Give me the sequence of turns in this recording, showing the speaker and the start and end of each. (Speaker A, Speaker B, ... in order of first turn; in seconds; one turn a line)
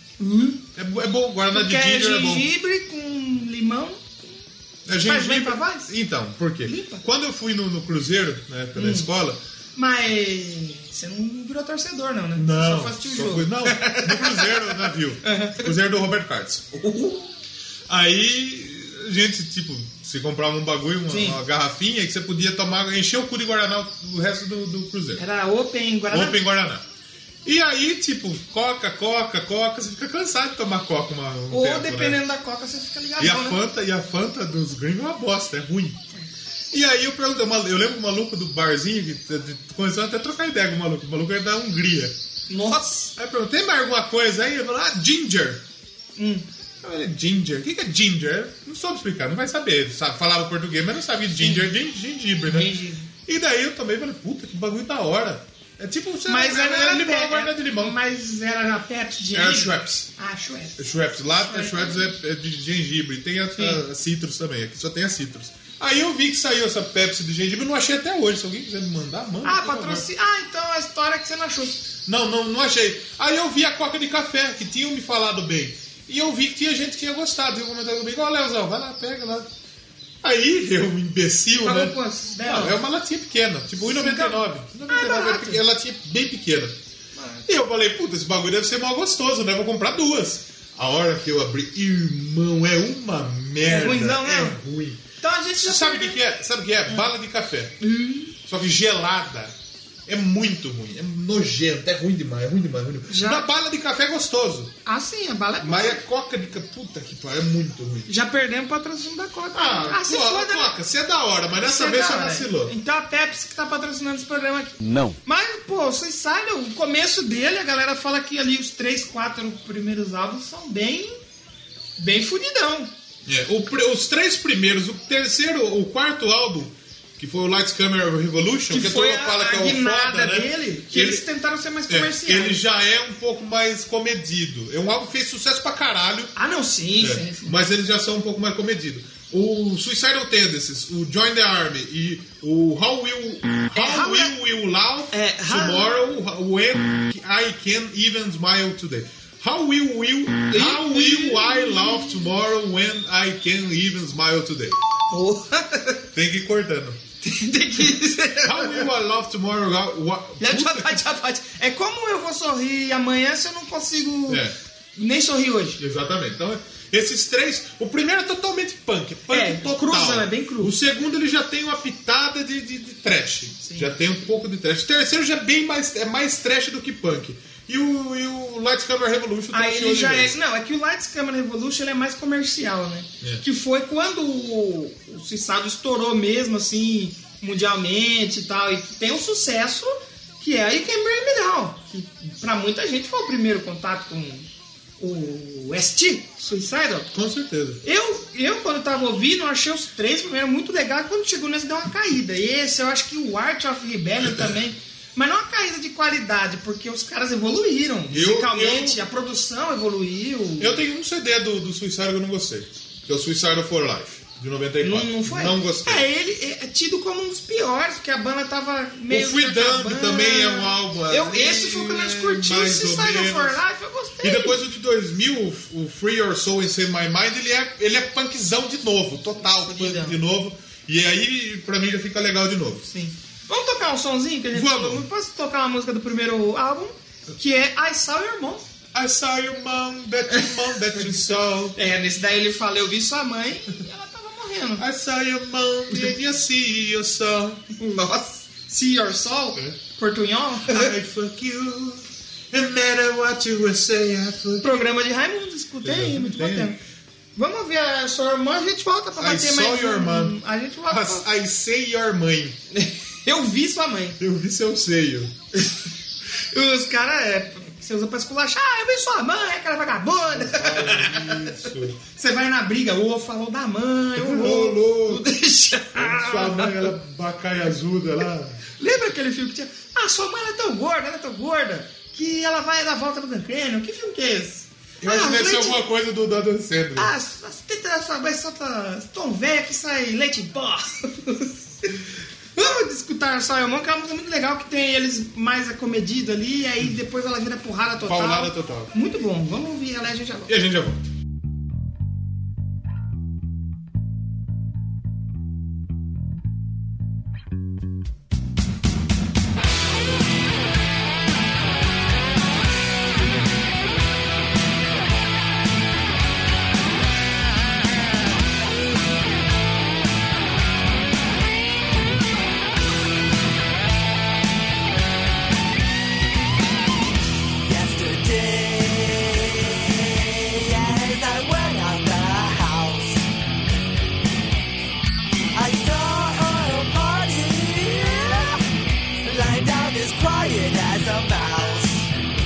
Speaker A: 0.2-0.7
Speaker B: 0.8-2.5
Speaker A: 1.5-4.2
Speaker B: 4.9-9.4
Speaker A: 5.0-5.9
Speaker A: 6.6-7.0
Speaker A: 8.8-9.1
Speaker A: 9.8-15.7
Speaker B: 12.4-16.9
Speaker A: 16.9-17.3
Speaker B: 17.9-25.2
Speaker A: 21.1-21.4
Speaker A: 25.2-26.4
Speaker B: 26.1-26.9
Speaker B: 27.4-32.2
Speaker A: 31.5-33.6
Speaker B: 33.2-36.0
Speaker B: 36.7-42.2
Speaker A: 42.5-43.1
Speaker B: 43.2-45.6
Speaker A: 46.2-46.5
Speaker B: 46.8-52.7
Speaker A: 51.4-51.7
Speaker A: 52.5-53.1
Speaker B: 53.3-58.0
Speaker A: 56.3-62.1
Speaker B: 59.3-60.1
Speaker B: 60.8-70.1
Speaker A: 69.4-71.8
Speaker B: 72.1-79.5
Speaker B: 80.2-86.8
Speaker A: 81.6-82.8
Speaker A: 83.8-85.6
Speaker A: 87.2-87.5
Speaker B: 87.5-95.0
Speaker A: 93.6-94.6
Speaker A: 95.2-96.3
Speaker B: 95.6-97.8
Speaker A: 97.8-98.3
Speaker B: 98.4-99.5
Speaker B: 100.1-104.7
Speaker A: 103.1-103.5
Speaker A: 104.8-106.0
Speaker B: 105.6-108.1
Speaker A: 108.1-110.8
Speaker B: 109.5-112.7
Speaker A: 111.6-121.2
Speaker A: 122.0-122.9
Speaker B: 123.3-131.2
Speaker A: 128.7-132.6
Speaker B: 131.9-136.3
Speaker A: 136.4-137.7
Speaker B: 137.0-154.8
Speaker A: 143.7-144.3
Speaker A: 145.1-146.0
Speaker A: 150.5-152.3
Speaker A: 155.1-156.1
Speaker B: 156.1-157.0
Speaker A: 157.2-158.9
Speaker B: 158.4-161.0
Speaker A: 160.4-164.4
Speaker B: 164.3-164.5
Speaker A: 165.0-165.8
Speaker B: 165.8-180.4
Speaker A: 169.3-170.7
Speaker A: 173.6-173.9
Speaker A: 179.5-194.5
Speaker A: 195.0-197.1
Speaker B: 197.1-197.8
Speaker A: 197.8-210.8
Speaker B: 208.1-209.0
Speaker B: 210.6-216.1
Speaker A: 214.8-224.6
Speaker B: 219.1-223.6
Speaker B: 224.2-232.9
Speaker A: 229.7-230.2
Speaker A: 232.9-238.7
Speaker B: 234.5-235.1
Speaker B: 238.9-241.8
Speaker A: 240.3-241.1
Speaker A: 241.8-244.8
Speaker B: 244.8-247.6
Speaker A: 247.7-250.9
Speaker B: 250.7-254.8
Speaker A: 254.6-256.8
Speaker B: 255.8-256.8
Speaker A: 257.4-261.3
Speaker B: 259.2-262.6
Speaker A: 262.7-264.2
Speaker B: 264.2-265.3
Speaker A: 266.4-276.9
Speaker B: 270.3-272.0
Speaker B: 274.2-275.3
Speaker B: 275.9-278.6
Speaker A: 278.8-285.8
Speaker B: 285.0-287.1
Speaker A: 287.0-292.0
Speaker A: 292.6-300.5
Speaker B: 298.0-298.9
Speaker B: 300.5-301.0
Speaker C: 327.6-333.2
Speaker C: 335.5-338.6
Speaker C: 339.2-342.1